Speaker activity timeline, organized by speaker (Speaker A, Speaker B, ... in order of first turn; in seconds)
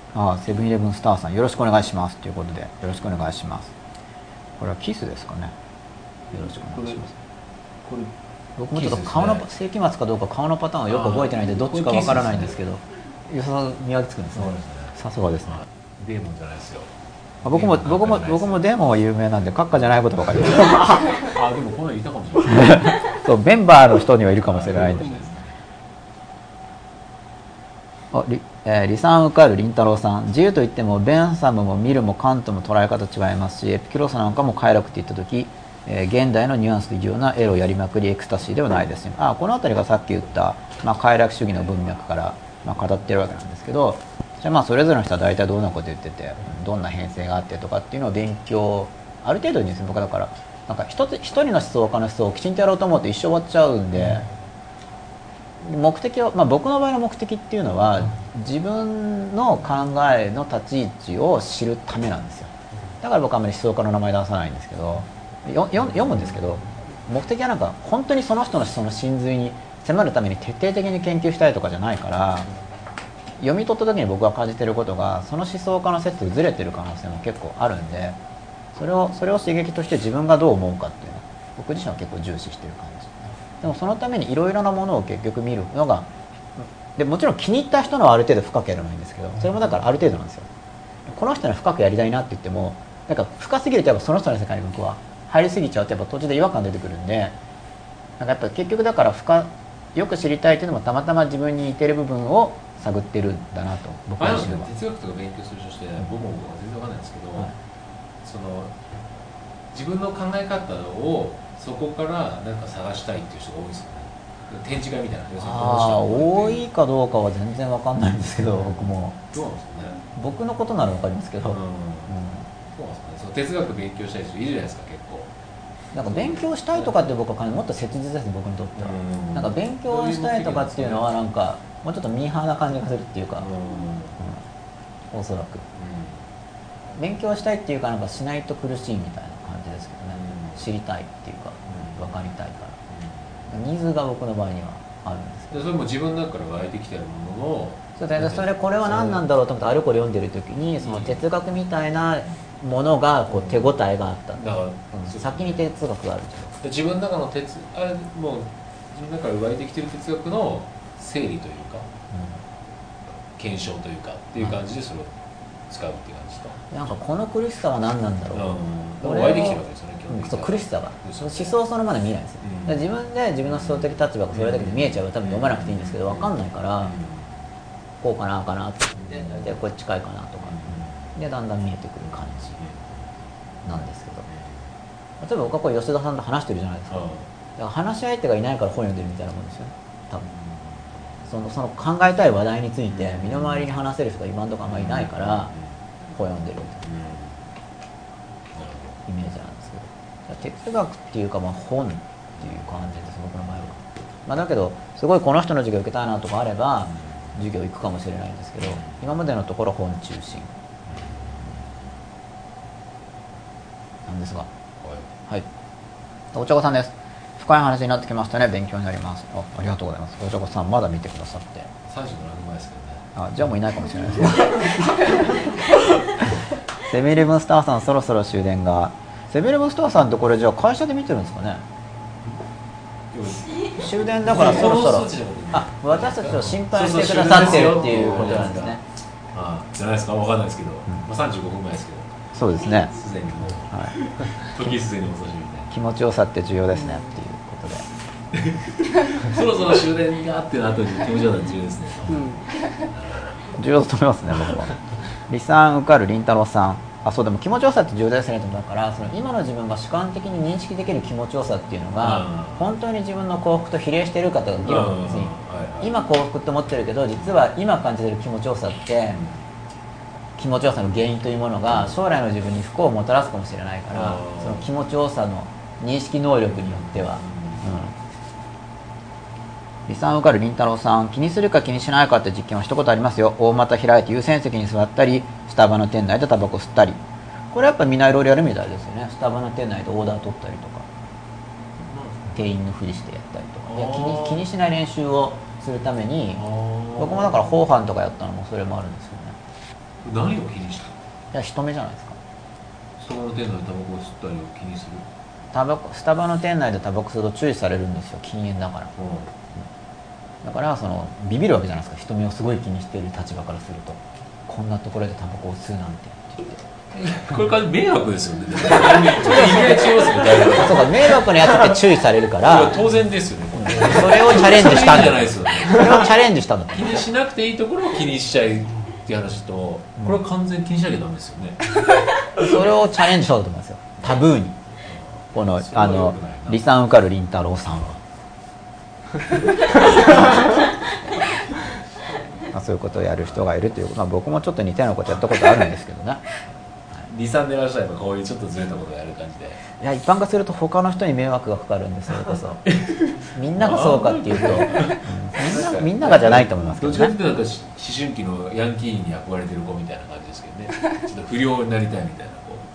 Speaker A: 0.1-3.7, 4.6-5.5, 6.3-7.1, 8.6-15.6, 17.4-21.3, 22.5-25.2, 28.1-54.3, 55.6-72.5, 73.4-78.2, 78.8-90.5, 91.1-97.4, 98.2-104.7, 115.4-119.2, 120.2-122.5, 125.9-133.5, 135.1-135.7, 137.0-142.8, 143.5-145.7, 148.0-156.6, 162.1-162.4, 166.7-176.9, 178.0-182.6, 183.7-184.3, 185.2-187.0, 187.6-190.3, 191.2-195.5, 196.1-196.8, 199.1-210.5, 214.1-214.5, 216.3-221.7, 223.2-225.4, 226.1-231.6, 233.8-238.8, 242.3-242.9, 243.7-244.0, 245.7-247.9, 253.5-254.7, 255.3-269.2, 270.4-277.9, 279.9-287.0, 287.5-290.9, 292.3-296.4, 297.0-299.4, 301.3-302.2, 305.5-309.0, 310.4-316.6, 319.1-322.9, 323.6-327.1, 332.4-334.6, 335.3-338.0, 342.4-346.3, 349.8-352.7, 353.2-357.2
Speaker B: 6.7-7.0, 7.8-8.1, 8.7-9.5, 10.9-12.6, 14.3-14.9, 15.5-16.9, 17.4-18.6, 20.3-22.9, 24.5-25.5, 104.2-107.5, 108.2-108.8, 109.7-116.7, 119.3-120.0, 121.5-125.3, 126.1-127.0, 128.8-131.1, 133.4-134.2, 135.7-136.3, 140.1-140.7, 141.7-142.1, 142.9-143.5, 145.5-149.2, 150.8-151.2, 153.3-153.8, 154.3-155.7, 156.6-161.9, 163.3-165.2, 165.7-166.7, 168.3-171.6, 172.4-172.8, 173.4-177.4, 179.0-179.5, 180.4-181.1, 182.0-183.1, 184.3-184.7, 186.9-187.3, 190.3-191.2, 192.9-193.7, 194.7-195.8, 196.8-197.4, 198.5-199.0, 206.9-207.4, 208.6-209.0, 210.9-211.9, 214.8-215.1, 221.8-223.1, 233.1-238.8, 239.3-245.7, 248.3-253.5, 254.3-254.7, 262.0-262.7, 264.6-266.0, 269.1-269.4, 273.9-274.6, 276.5-277.7, 291.8-292.4, 293.7-294.5, 296.3-297.4, 300.0-301.0, 303.0-305.1, 309.0-309.3, 316.9-321.8, 322.4-326.1, 326.7-331.8, 334.9-336.6, 339.2-340.6, 347.1-349.6, 352.7-362.7